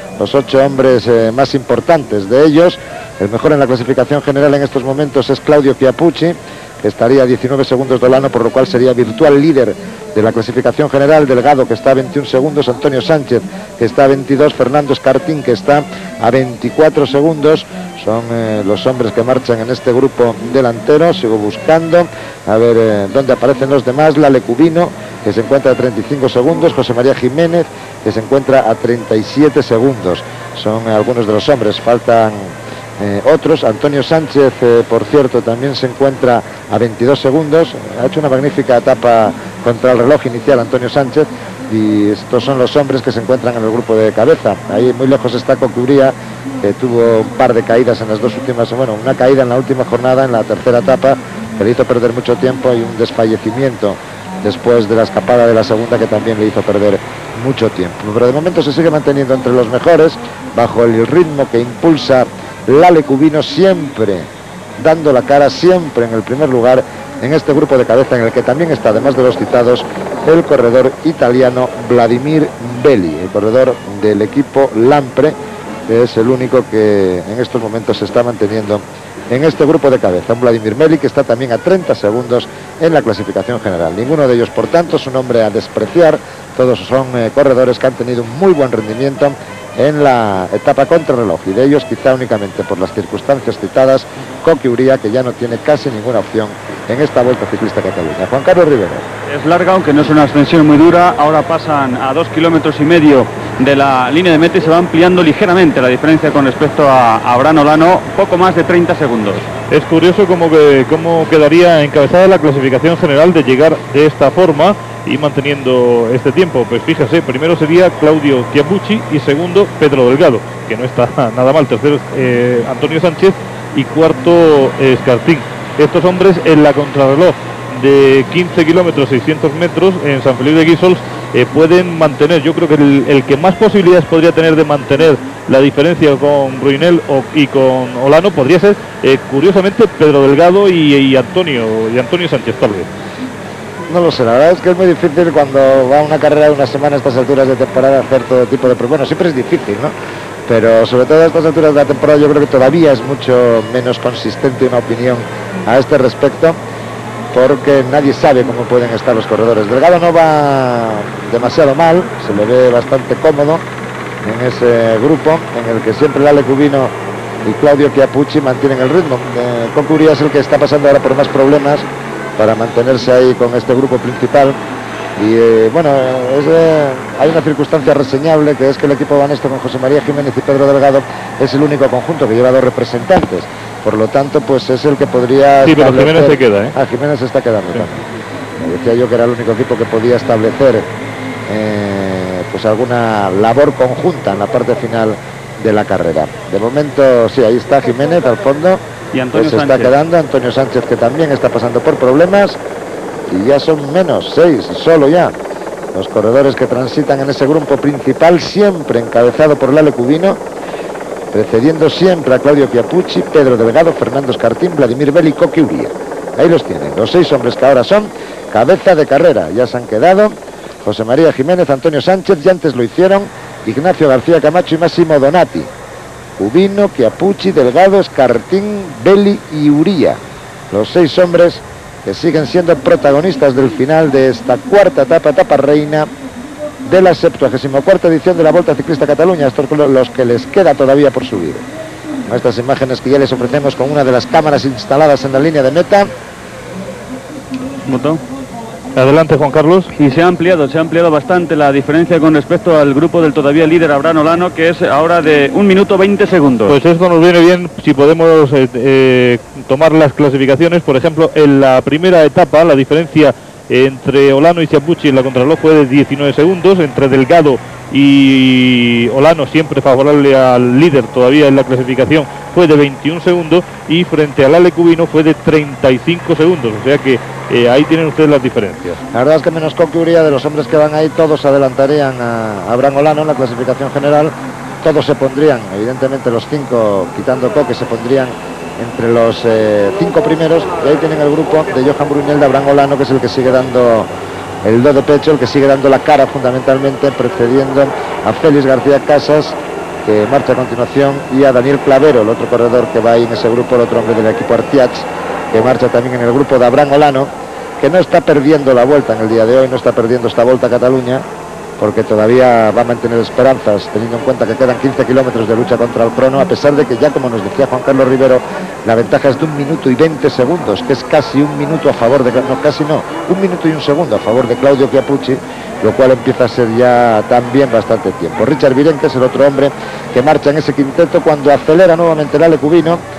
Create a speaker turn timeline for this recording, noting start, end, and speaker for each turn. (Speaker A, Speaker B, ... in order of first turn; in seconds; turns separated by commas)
Speaker A: 0.2-75.4, Speaker A: 75.9-99.1, Speaker B: 99.3-109.5, Speaker C: 109.7-142.9, Speaker A: 143.9-149.9, Speaker A: 150.5-156.6, Speaker A: 157.3-163.6, Speaker A: 164.2-171.9, Speaker A: 172.4-174.6, Speaker A: 175.2-188.1, Speaker C: 185.6-186.8, Speaker A: 188.6-190.9, Speaker A: 191.5-198.8, Speaker B: 199.1-199.9, Speaker A: 199.3-202.6, Speaker A: 203.3-205.3, Speaker A: 205.9-210.4, Speaker A: 211.3-220.3, Speaker A: 220.8-225.7, Speaker A: 226.4-230.2, Speaker A: 230.7-236.1, Speaker A: 236.8-241.7, Speaker A: 242.3-246.1, Speaker B: 247.9-248.2, Speaker C: 249.0-249.9, Speaker B: 250.0-256.8, Speaker C: 256.7-279.0, Speaker A: 279.1-294.1, Speaker A: 294.6-311.2, Speaker A: 311.8-333.0